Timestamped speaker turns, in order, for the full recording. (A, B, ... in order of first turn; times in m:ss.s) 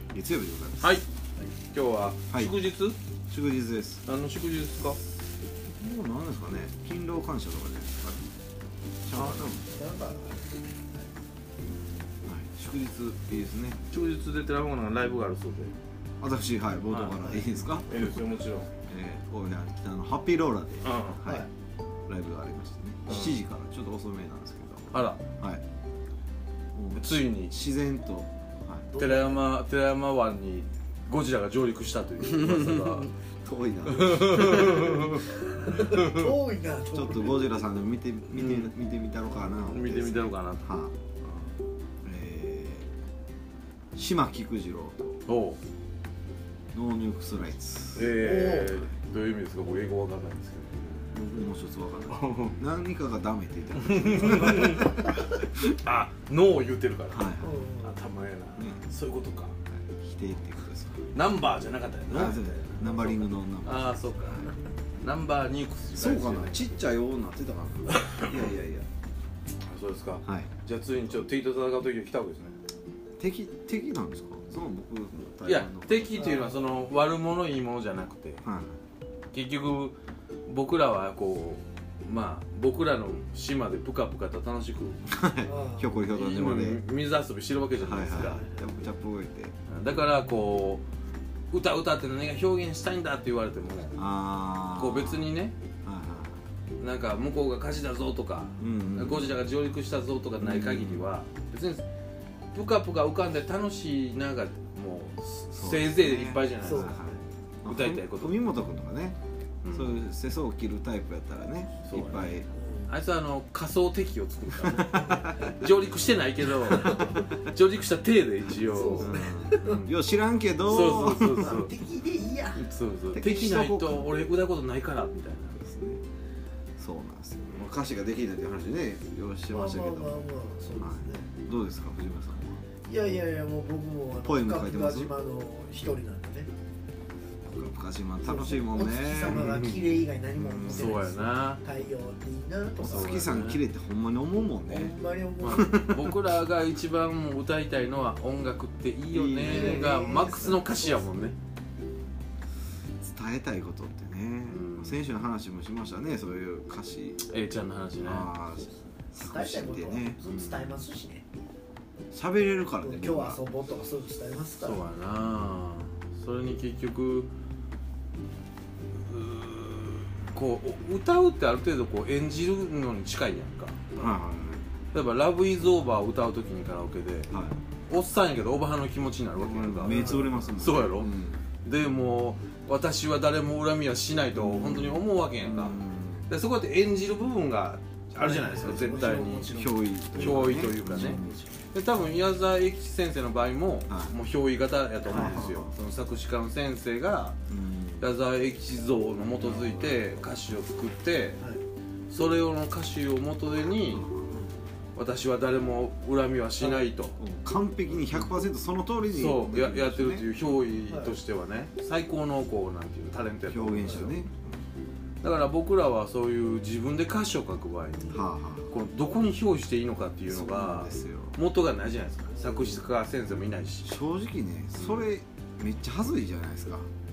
0:00.1-0:00.9 A
0:00.8-0:03.0 B
0:02.3-0:02.6 A
0:03.3-0:04.0 A
0:04.0-0:05.0 B
0:05.7-0:08.3 A
0:09.0-0:09.7 A
0:09.1-0:09.5 B
0:09.6-0:11.1 C
0:12.2-0:13.8 A
0:13.9-0:15.7 B
0:16.2-0:18.0 A
0:16.9-0:17.2 B
0:17.8-0:18.7 B
0:18.9-0:21.5 A
0:20.8-0:21.2 B
0:22.1-0:25.6 A
0:23.1-0:23.4 B
0:24.9-0:25.2 B
0:26.8-0:28.9 A
0:26.9-0:27.5 B
0:28.9-0:29.4 C
0:29.0-0:33.1 B
0:32.3-0:35.0 A
0:33.9-0:36.3 B
0:35.5-0:37.6 C
0:36.9-0:40.9 A
0:38.3-0:38.8 B
0:39.6-0:40.7 B
0:41.2-0:41.6 B
0:42.0-0:42.9 A
0:43.9-0:45.2 A
0:45.2-0:45.6 B
0:46.7-0:48.2 A
0:47.9-0:51.0 B
0:48.1-0:48.8 C
0:50.9-0:54.9 A
0:52.1-0:52.6 B
0:53.8-0:59.6 B
0:57.1-0:57.7 A
0:57.4-0:58.0 C
0:58.6-0:58.8 A
0:59.7-1:01.0 A
1:01.0-1:06.7 B
1:02.1-1:04.5 A
1:06.0-1:08.9 A
1:07.9-1:08.4 B
1:09.6-1:12.6 B
1:10.2-1:10.5 A
1:13.2-1:16.4 A
1:15.4-1:18.4 B
1:16.1-1:16.7 C
1:18.4-1:18.8 A
1:19.3-1:20.0 B
1:20.5-1:25.0 B
1:25.1-1:26.8 A
1:25.4-1:26.0 C
1:26.1-1:28.5 B
1:27.8-1:29.6 A
1:28.3-1:28.6 C
1:29.7-1:30.8 B
1:31.5-1:34.0 B
1:34.0-1:36.4 A
1:34.8-1:35.6 B
1:36.8-1:41.8 B
1:38.6-1:39.4 A
1:40.4-1:41.1 A
1:42.5-1:47.0 B
1:45.6-1:49.2 A
1:46.5-1:47.2 C
1:47.6-1:48.4 B
1:49.6-1:50.0 B
1:49.7-1:52.4 A
1:51.8-1:59.9 B
1:52.5-1:53.0 C
1:54.6-1:55.5 A
1:54.8-1:55.1 C
1:56.6-1:57.2 C
1:56.8-1:57.3 A
1:58.6-1:59.8 C
1:59.0-2:01.6 A
2:00.6-2:01.8 B
2:00.8-2:02.7 C
2:02.5-2:05.6 B
2:03.1-2:04.1 A
2:05.6-2:06.0 A
2:06.8-2:12.6 A
2:09.5-2:11.3 C
2:12.8-2:16.5 C
2:14.2-2:15.1 A
2:17.4-2:19.4 A
2:18.2-2:23.2 C
2:19.2-2:20.0 B
2:20.3-2:21.0 A
2:20.7-2:21.6 B
2:22.8-2:25.0 A
2:22.8-2:23.6 B
2:24.7-2:25.9 C
2:25.4-2:31.4 B
2:25.5-2:26.2 A
2:29.1-2:29.8 A
2:29.2-2:31.2 C
2:33.0-2:37.2 A
2:34.5-2:35.0 B
2:37.2-2:38.4 B
2:38.0-2:40.2 A
2:39.2-2:41.2 C
2:40.2-2:40.8 B
2:42.1-2:43.4 A
2:42.8-2:44.8 C
2:44.6-2:47.3 B
2:48.9-2:54.0 B
2:54.0-2:54.6 A
2:54.9-2:57.3 B
2:57.3-2:57.6 A
2:57.9-3:09.6 B
2:59.4-3:01.4 A
2:59.8-3:00.5 C
3:04.3-3:06.3 A
3:08.2-3:11.6 C
3:08.6-3:11.4 A
3:10.1-3:17.4 B
3:13.9-3:14.2 A
3:15.1-3:15.8 A
3:17.5-3:18.1 A
3:18.0-3:21.5 B
3:19.4-3:20.1 A
3:22.1-3:24.1 B
3:23.9-3:24.3 A
3:24.3-3:24.6 C
3:25.0-3:27.2 B
3:27.2-3:30.5 A
3:29.1-3:34.2 B
3:30.8-3:31.2 C
3:33.5-3:34.6 A
3:35.2-3:43.9 B
3:38.1-3:38.7 A
3:40.3-3:41.4 A
3:42.3-3:42.7 C
3:43.8-3:46.9 A
3:44.7-3:45.1 B